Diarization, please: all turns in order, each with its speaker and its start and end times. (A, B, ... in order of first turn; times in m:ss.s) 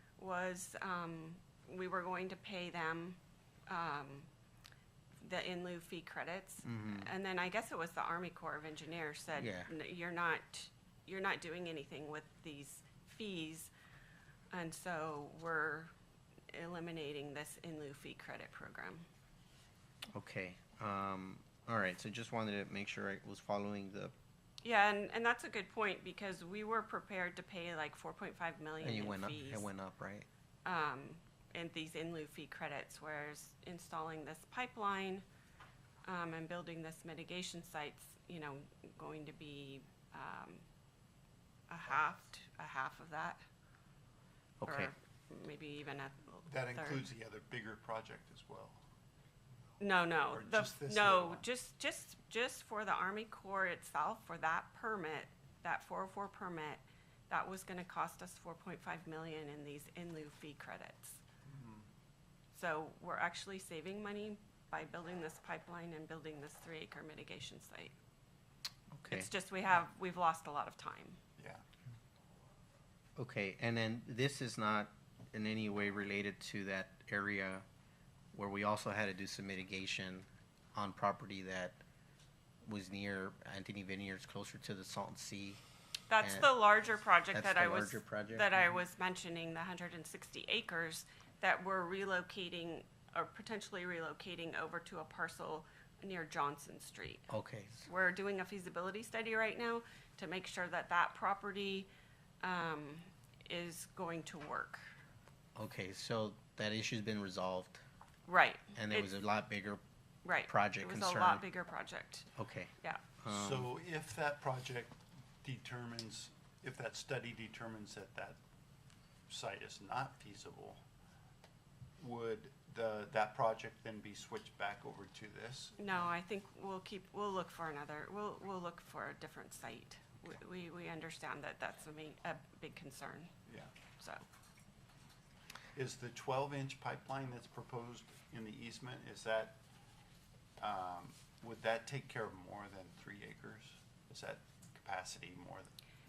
0:00.2-0:04.3 A
0:05.2-0:13.7 A
0:06.6-0:07.1 B
0:09.3-0:09.7 B
0:14.5-0:15.9 A
0:16.5-0:19.0 A
0:20.1-0:24.1 B
0:24.6-0:29.6 A
0:28.8-0:30.3 B
0:30.6-0:35.2 A
0:36.0-0:40.6 A
0:41.7-0:43.4 A
0:44.6-0:44.9 B
0:44.6-0:47.0 A
0:46.4-0:48.8 C
0:49.8-1:01.2 A
0:50.3-0:51.4 C
1:01.5-1:01.8 C
1:02.5-1:07.9 A
1:08.9-1:09.3 B
1:09.1-1:11.2 A
1:11.4-1:11.6 C
1:13.2-1:17.6 B
1:18.3-1:21.8 B
1:22.6-1:25.6 B
1:26.1-1:37.3 A
1:26.2-1:26.6 B
1:27.3-1:28.5 B
1:37.3-1:37.8 B
1:37.8-1:41.9 A
1:42.4-1:44.8 A
1:45.6-1:47.8 B
1:48.3-1:49.2 A
1:48.7-1:49.8 B
1:50.2-1:52.3 A
1:50.5-1:51.4 B
1:52.4-1:53.7 B
1:53.3-1:58.4 C
1:59.3-2:00.8 C
2:02.0-2:06.0 C
2:05.8-2:13.3 A
2:13.5-2:13.7 C
2:14.0-2:14.2 A
2:15.7-2:19.6 C
2:20.6-2:25.7 C